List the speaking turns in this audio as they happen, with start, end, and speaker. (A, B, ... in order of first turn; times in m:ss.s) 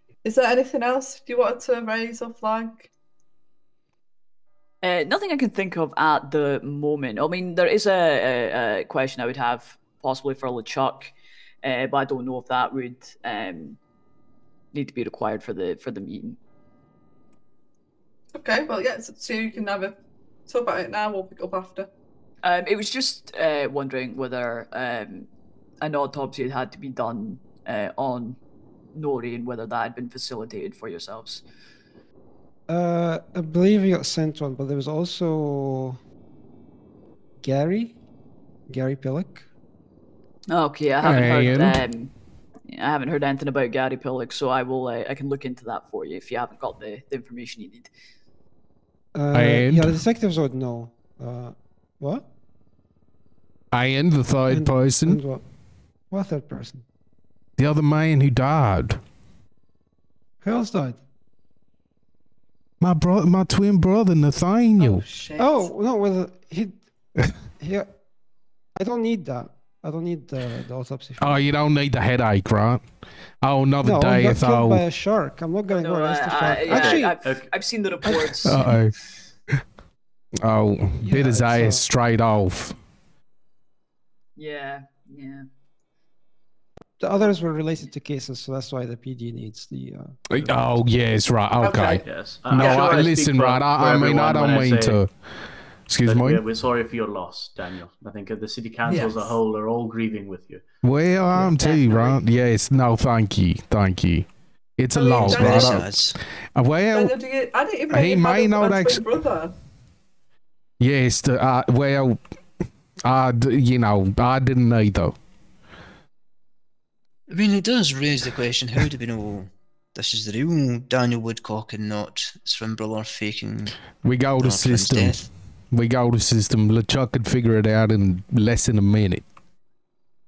0:00.2-0:02.9 A
0:04.8-0:11.1 B
0:11.6-0:13.8 B
0:14.7-0:16.4 B
0:18.3-0:19.9 A
0:20.5-0:21.9 A
0:22.4-0:25.3 B
0:25.8-0:28.4 B
0:28.9-0:31.4 B
0:32.7-0:36.0 C
0:37.4-0:38.0 C
0:38.7-0:39.4 C
0:40.5-0:42.1 B
0:41.0-0:41.8 D
0:42.7-0:47.9 B
0:49.1-0:52.3 C
0:49.3-0:50.0 D
0:53.7-0:55.2 D
0:54.5-0:55.4 C
0:56.1-0:56.8 C
0:57.6-0:59.0 D
1:00.4-1:01.0 C
1:02.8-1:05.1 D
1:04.8-1:05.7 A
1:05.4-1:06.8 C
1:07.6-1:07.9 C
1:08.8-1:11.4 C
1:11.2-1:12.8 D
1:13.4-1:14.8 D
1:13.8-1:17.1 C
1:15.7-1:18.7 B
1:16.6-1:17.5 E
1:18.4-1:18.9 D
1:20.4-1:22.7 D
1:21.0-1:21.9 C
1:24.4-1:25.4 B
1:27.0-1:30.5 C
1:30.3-1:35.1 D
1:31.6-1:32.0 A
1:32.0-1:35.0 E
1:32.6-1:32.9 A
1:35.9-1:36.4 D
1:36.0-1:40.6 E
1:38.8-1:39.4 A
1:40.8-1:44.3 D
1:41.3-1:42.2 B
1:44.8-1:45.9 D
1:44.9-1:45.8 A
1:45.2-1:46.2 F
1:46.5-1:47.1 D
1:46.9-1:49.5 A
1:47.9-1:49.0 D
1:50.8-1:52.2 D
1:53.0-1:55.1 D
1:57.3-2:03.8 F
2:03.9-2:05.2 D
2:04.4-2:05.3 F
2:05.7-2:09.2 D